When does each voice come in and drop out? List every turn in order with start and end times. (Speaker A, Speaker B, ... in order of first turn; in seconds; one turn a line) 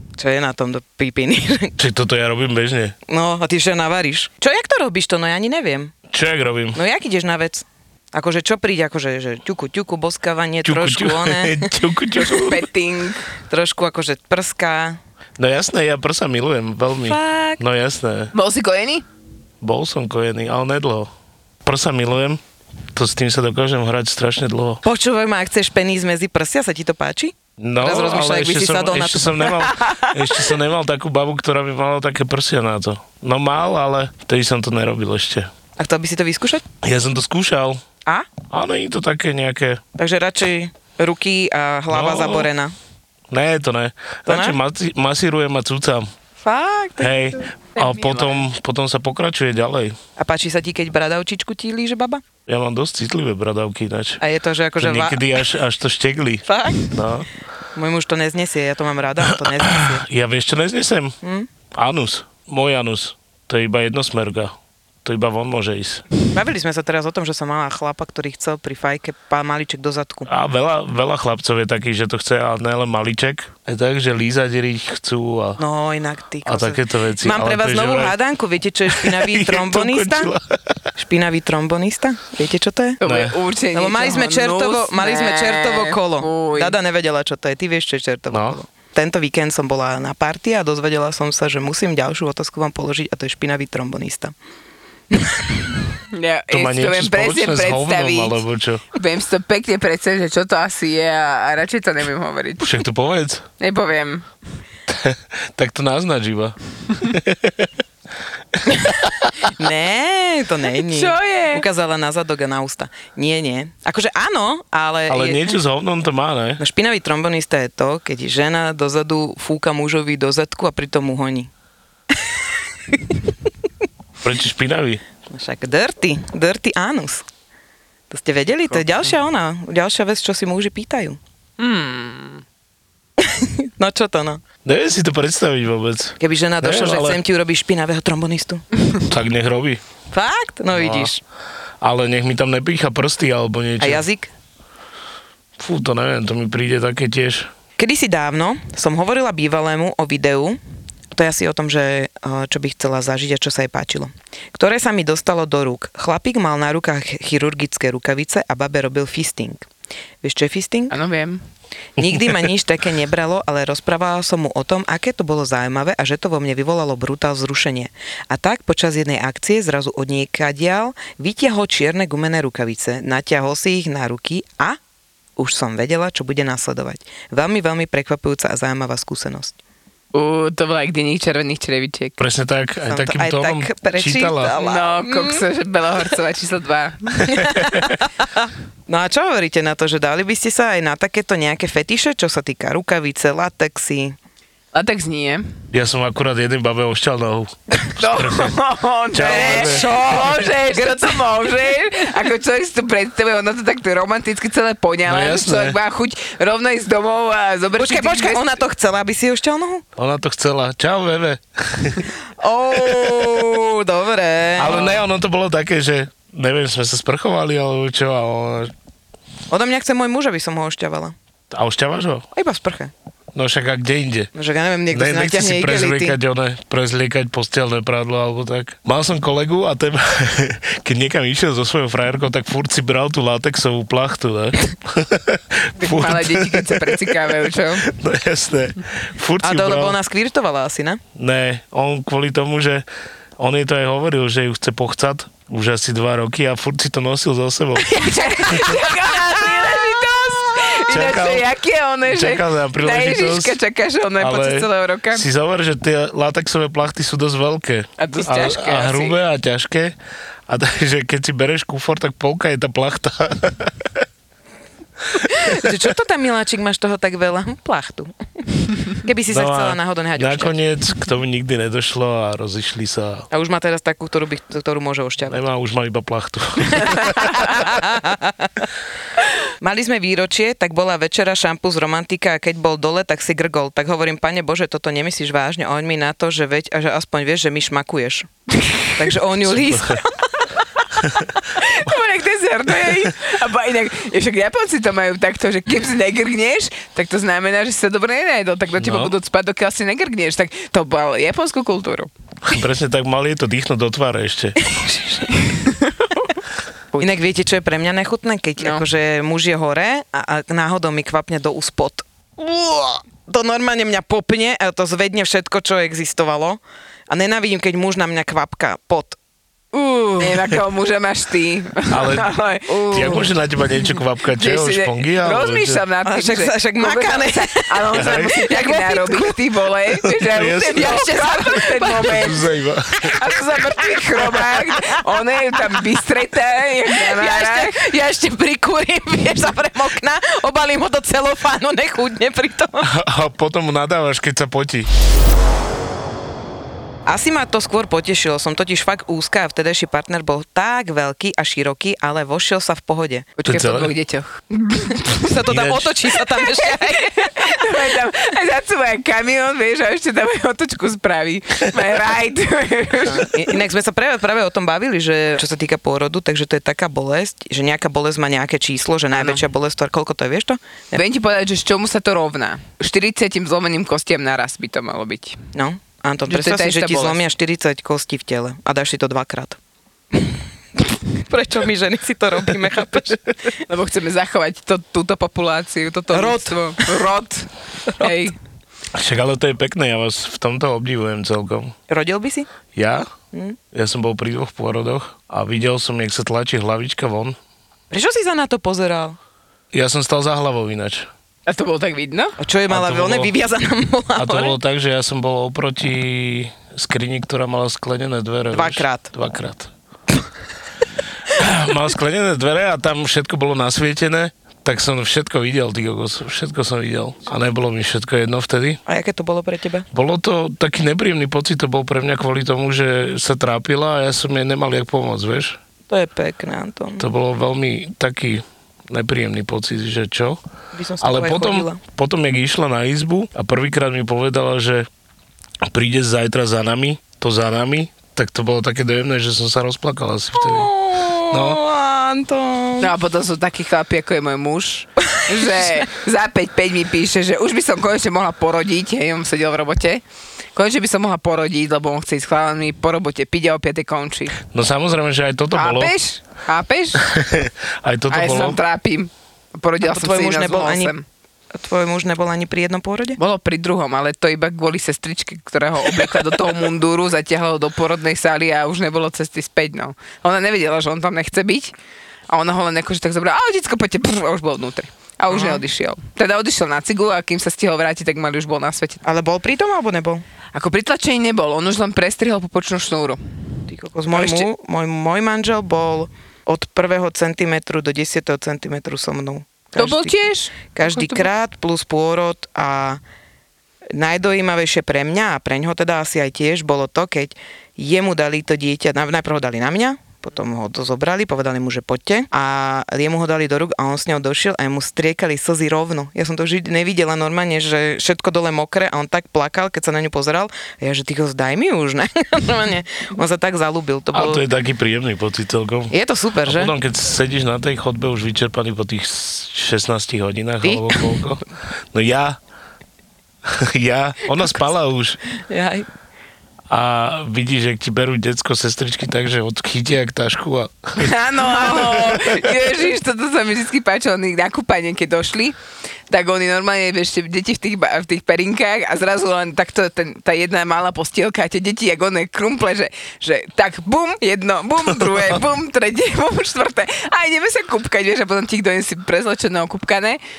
Speaker A: 0.2-1.8
Speaker B: 1.8-3.0
Speaker A: 3.1-5.9
Speaker B: 6.1-6.8
Speaker A: 6.8-11.7
Speaker B: 10.6-12.6
Speaker C: 12.2-13.2
Speaker A: 13.5-15.0
Speaker B: 15.4-18.3
Speaker A: 17.0-17.6
Speaker C: 18.3-19.1
Speaker B: 19.6-21.1
Speaker B: 21.6-22.4
Speaker B: 22.9-24.8
Speaker A: 24.8-29.7
Speaker B: 27.6-35.5
Speaker A: 35.8-36.6
Speaker B: 36.8-37.8
Speaker B: 38.5-39.8
Speaker A: 40.0-42.7
Speaker B: 41.9-42.5
Speaker B: 43.3-46.1
Speaker A: 44.3-44.6
Speaker A: 46.4-47.4
Speaker B: 47.0-50.0
Speaker C: 47.8-48.4
Speaker A: 50.2-52.2
Speaker B: 52.5-54.2
Speaker A: 54.2-55.2
Speaker B: 54.8-57.3
Speaker A: 56.5-56.9
Speaker A: 57.8-60.1
Speaker B: 59.5-61.1
Speaker A: 61.2-61.5
Speaker B: 61.7-66.0
Speaker A: 66.3-70.3
Speaker B: 70.3-75.6
Speaker A: 75.6-80.3
Speaker B: 76.5-78.2
Speaker B: 78.9-80.8
Speaker A: 81.0-83.0
Speaker C: 83.0-86.8
Speaker B: 83.0-83.3
Speaker A: 83.7-94.3
Speaker B: 88.3-88.6
Speaker A: 95.1-95.6
Speaker C: 96.1-98.4
Speaker B: 96.5-98.8
Speaker C: 98.9-102.7
Speaker B: 102.6-103.5
Speaker C: 103.6-104.3
Speaker B: 104.9-107.7
Speaker A: 109.5-115.6
Speaker C: 110.8-111.6
Speaker B: 115.1-116.6
Speaker A: 116.6-121.5
Speaker B: 124.2-125.0
Speaker A: 125.3-127.2
Speaker A: 128.1-131.2
Speaker C: 131.6-132.4
Speaker A: 133.2-134.4
Speaker B: 134.7-137.2
Speaker A: 136.2-138.7
Speaker B: 139.1-139.8
Speaker A: 140.1-141.2
Speaker B: 140.7-141.1
Speaker B: 141.8-144.0
Speaker A: 143.8-144.3
Speaker B: 145.6-147.5
Speaker A: 147.8-150.6
Speaker A: 151.1-159.7
Speaker A: 160.2-160.9
Speaker C: 160.9-161.4
Speaker A: 162.0-174.8
Speaker A: 175.4-179.6
Speaker C: 180.1-182.2
Speaker B: 182.2-184.6
Speaker A: 182.9-185.4
Speaker C: 184.6-187.4
Speaker A: 187.2-194.2
Speaker C: 194.7-195.5
Speaker B: 195.7-198.5
Speaker C: 198.0-208.6
Speaker B: 199.1-199.9
Speaker A: 199.2-201.2
Speaker B: 205.1-205.8
Speaker A: 207.8-209.8
Speaker B: 210.0-212.1
Speaker A: 212.4-215.0
Speaker B: 214.6-218.7
Speaker A: 219.5-221.1
Speaker B: 221.5-222.2
Speaker A: 222.3-222.9
Speaker B: 223.3-224.3
Speaker A: 224.3-226.2
Speaker B: 224.9-237.1
Speaker C: 235.8-237.9
Speaker B: 237.9-240.0
Speaker A: 239.4-241.0
Speaker B: 241.2-242.9
Speaker B: 243.4-248.8
Speaker C: 247.8-255.2
Speaker B: 250.9-251.5
Speaker B: 252.1-253.6
Speaker B: 254.2-259.9
Speaker C: 258.0-259.2
Speaker B: 260.5-264.0
Speaker A: 265.3-268.1
Speaker A: 268.7-270.6
Speaker B: 269.3-273.3
Speaker A: 273.3-275.4
Speaker B: 275.3-277.3
Speaker A: 276.8-278.6
Speaker A: 279.6-288.3
Speaker C: 288.6-288.9
Speaker A: 288.9-290.2
Speaker B: 289.5-290.0
Speaker C: 291.5-302.1
Speaker B: 298.8-299.1
Speaker B: 302.4-304.6
Speaker A: 304.8-305.2
Speaker C: 305.3-306.1
Speaker A: 307.0-319.2
Speaker C: 308.6-308.9
Speaker A: 319.8-320.2
Speaker C: 320.2-323.2
Speaker B: 321.9-322.3
Speaker A: 322.8-323.2
Speaker B: 322.9-325.8
Speaker C: 324.3-332.4
Speaker A: 326.1-329.3
Speaker B: 327.9-328.3
Speaker B: 330.0-331.1
Speaker A: 330.9-331.9
Speaker B: 331.8-333.1
Speaker C: 333.1-337.8
Speaker A: 337.1-342.9
Speaker B: 342.8-344.9
Speaker A: 347.1-353.3
Speaker C: 353.4-355.2
Speaker B: 353.5-353.9
Speaker A: 355.1-357.4
Speaker B: 355.5-355.9
Speaker C: 356.4-363.4
Speaker A: 363.0-371.0
Speaker C: 369.1-369.4
Speaker C: 370.9-375.4
Speaker A: 375.5-379.6
Speaker C: 376.3-377.2
Speaker A: 381.2-383.3
Speaker C: 383.7-388.3
Speaker A: 386.1-386.9
Speaker B: 388.9-391.8
Speaker A: 391.9-392.5
Speaker B: 392.8-393.1
Speaker A: 393.3-393.6
Speaker B: 393.7-397.4
Speaker A: 397.9-399.2
Speaker B: 399.7-401.1
Speaker C: 401.5-402.4
Speaker A: 402.4-404.6
Speaker B: 402.7-403.3
Speaker B: 404.2-409.7
Speaker A: 408.5-409.1
Speaker B: 411.3-418.8
Speaker A: 418.9-419.9
Speaker B: 419.9-425.6
Speaker A: 425.9-427.1
Speaker B: 427.0-430.4
Speaker A: 430.7-431.8
Speaker B: 431.0-434.9
Speaker B: 435.6-440.7
Speaker A: 440.4-442.9
Speaker B: 441.3-441.6
Speaker C: 442.8-450.0
Speaker C: 450.6-454.4
Speaker B: 454.5-455.9
Speaker C: 455.6-457.0
Speaker B: 457.0-458.6
Speaker C: 458.1-461.0
Speaker A: 459.8-460.9
Speaker A: 461.6-463.2
Speaker C: 463.2-471.7
Speaker C: 472.3-479.0
Speaker A: 475.3-475.6
Speaker A: 479.0-480.2
Speaker C: 480.5-483.2
Speaker A: 483.7-493.0
Speaker C: 484.1-484.5
Speaker C: 489.8-491.3
Speaker A: 493.9-514.4
Speaker B: 514.1-522.4
Speaker A: 515.9-516.7
Speaker A: 520.6-521.2
Speaker B: 523.5-525.2
Speaker A: 525.5-525.9
Speaker B: 526.7-532.5
Speaker C: 531.0-535.6
Speaker C: 536.1-550.2